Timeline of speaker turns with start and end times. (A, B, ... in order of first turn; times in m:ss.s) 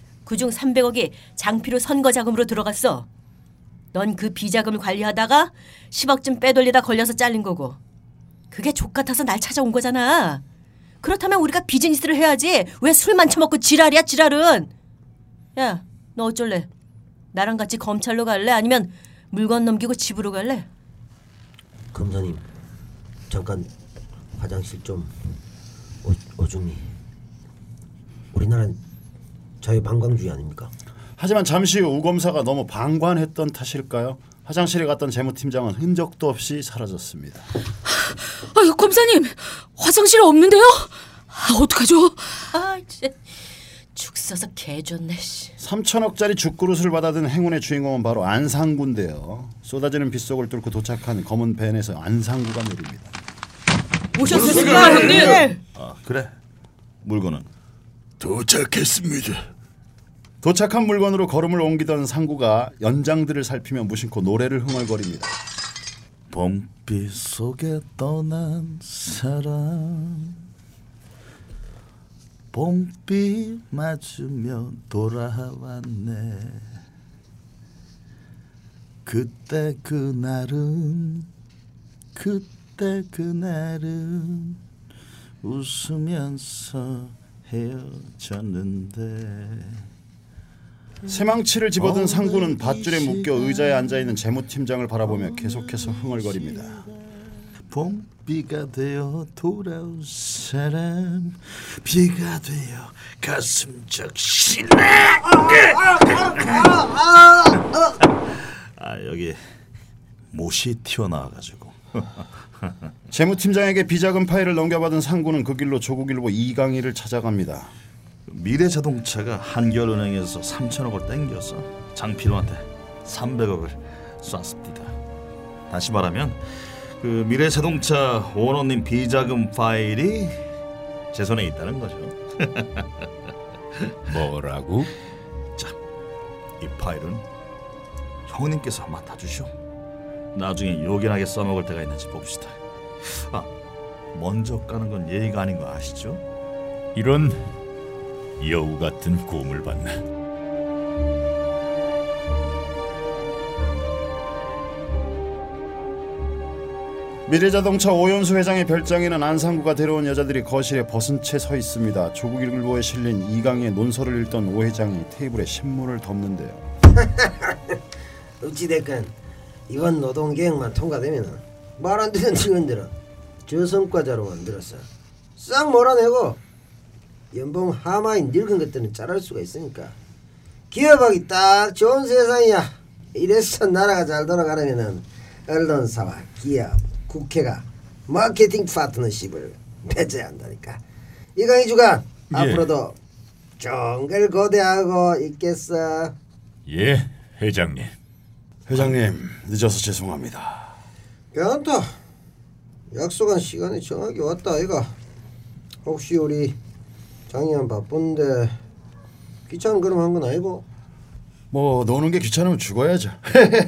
0:00.2-0:03.1 A
0:03.9-0:07.8 A
0:08.5-0:10.4 A
0:11.0-0:14.7 A
0:15.6-0:16.7 A
0:17.3-0:20.7 A
0:21.9-0:22.4 B
0:23.3-0:23.7 B
0:24.3-0:25.1 B
0:26.0-0:26.9 B
0:28.3-0:28.8 B
0:29.6-0:30.7 B
0:31.2-0:37.5 C
0:38.0-0:42.4 D
0:42.5-0:43.4 A
0:43.9-0:45.5 A
0:45.6-0:53.1 C
0:54.1-0:55.6 A
0:54.2-0:56.3 E
0:54.2-0:55.5 C
0:57.0-0:57.4 E
0:58.2-0:59.4 E
1:00.4-1:05.3 C
1:06.3-1:10.4 E
1:12.5-1:16.7 E
1:19.0-1:21.3 E
1:22.1-1:24.6 E
1:25.4-1:29.8 E
1:31.1-1:36.8 C
1:31.8-1:34.1 E
1:35.2-1:36.8 E
1:37.7-1:46.9 E
1:45.4-1:47.9 B
1:48.0-1:49.4 E
1:50.3-1:52.8 E
1:53.1-1:57.7 C
1:58.3-2:05.0 E
2:05.7-2:10.4 E
2:11.1-2:12.9 E
2:14.1-2:14.9 F
2:16.6-2:17.2 E
2:18.3-2:19.5 E
2:20.3-2:23.5 E
2:24.1-2:26.2 E
2:26.9-2:27.5 F
2:28.4-2:30.0 F
2:37.2-2:46.7 C
2:46.9-2:47.8 B
2:48.4-2:49.1 B
2:49.7-2:52.9 B
2:53.4-2:56.4 B
2:57.3-3:00.0 B
3:00.7-3:10.8 B
3:11.4-3:13.0 B
3:12.3-3:12.6 F
3:13.6-3:16.1 B
3:16.6-3:17.9 F
3:18.7-3:20.7 C
3:21.3-3:21.9 B
3:22.9-3:24.9 B
3:25.8-3:26.6 B
3:27.3-3:28.6 B
3:29.5-3:30.6 B
3:31.5-3:33.5 C